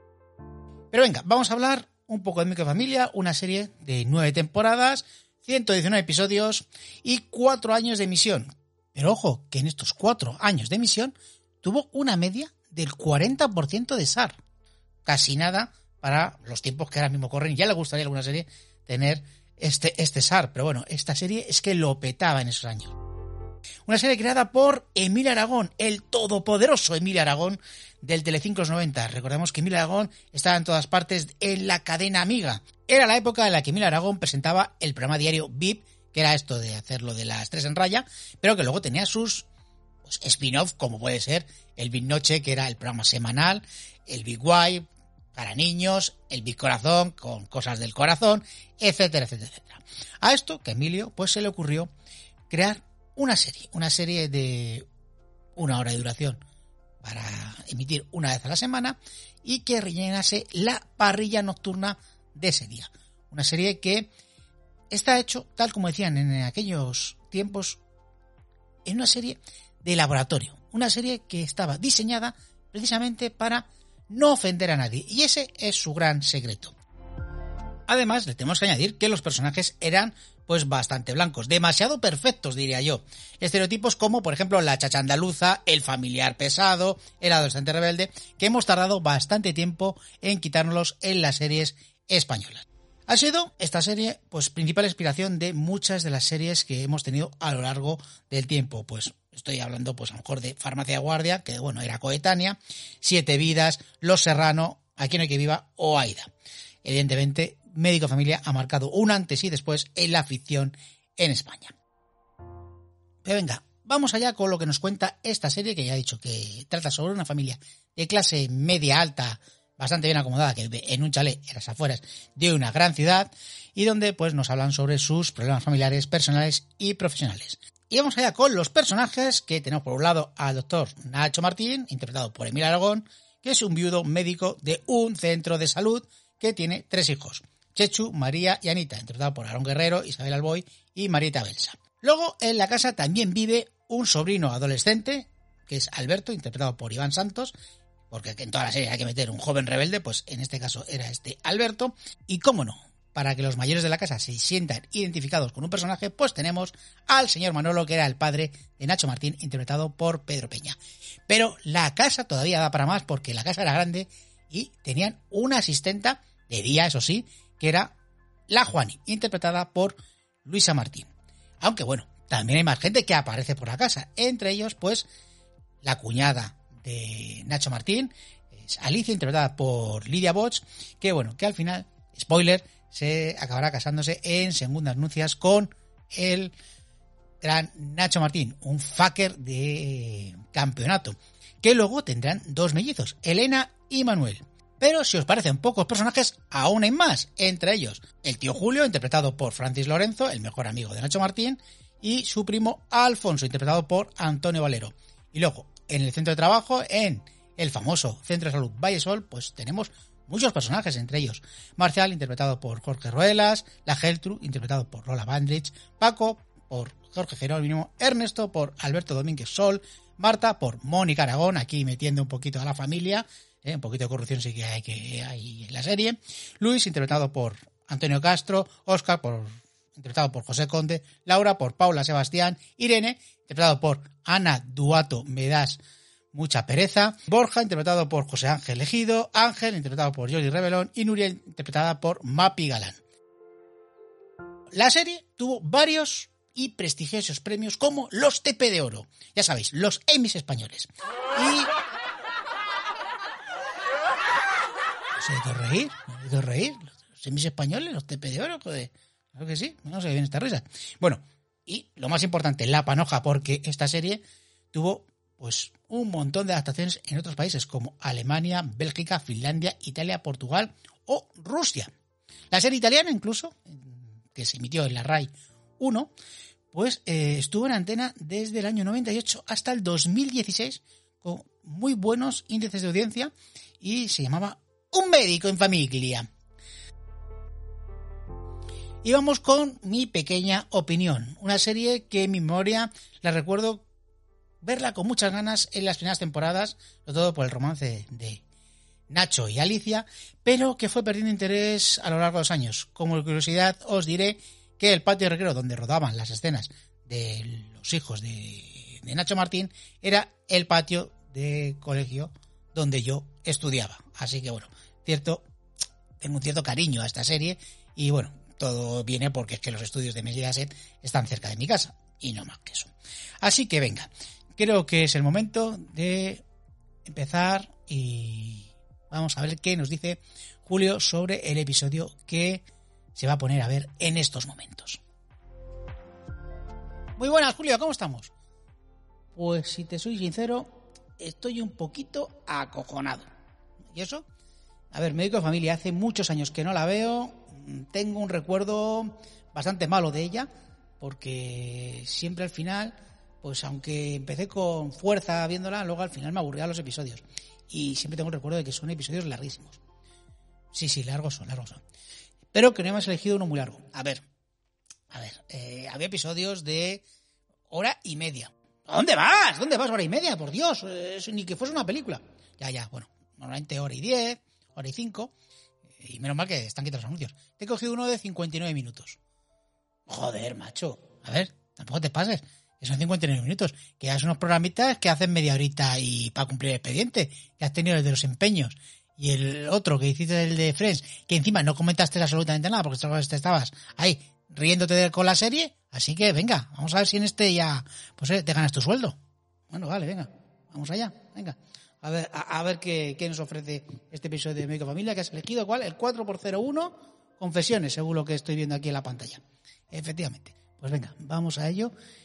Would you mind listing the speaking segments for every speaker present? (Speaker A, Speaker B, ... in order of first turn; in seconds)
Speaker A: 0.9-14.4, 15.0-23.0, 23.9-39.5, 40.0-51.9, 52.5-54.9, 55.5-56.4, 57.0-64.1, 64.9-67.8, 68.8-76.7, 77.9-106.3, 106.8-111.7, 113.2-147.5, 148.1-160.8, 161.3-167.9, 168.5-175.1, 175.8-186.5, 187.4-235.8, 236.3-243.0, 244.7-251.7, 255.2-264.2, 264.7-271.9, 272.5-276.1, 276.7-286.3, 289.0-293.9, 294.6-298.4, 299.1-315.4, 316.2-322.9, 323.4-326.4, 327.1-332.6, 333.1-335.0, 337.2-338.3, 339.3-343.3, 343.9-344.2, 344.9-359.8, 360.7-361.8, 362.5-364.2, 365.1-367.0, 367.7-375.3, 376.0-379.2, 380.1-399.1, 399.7-411.9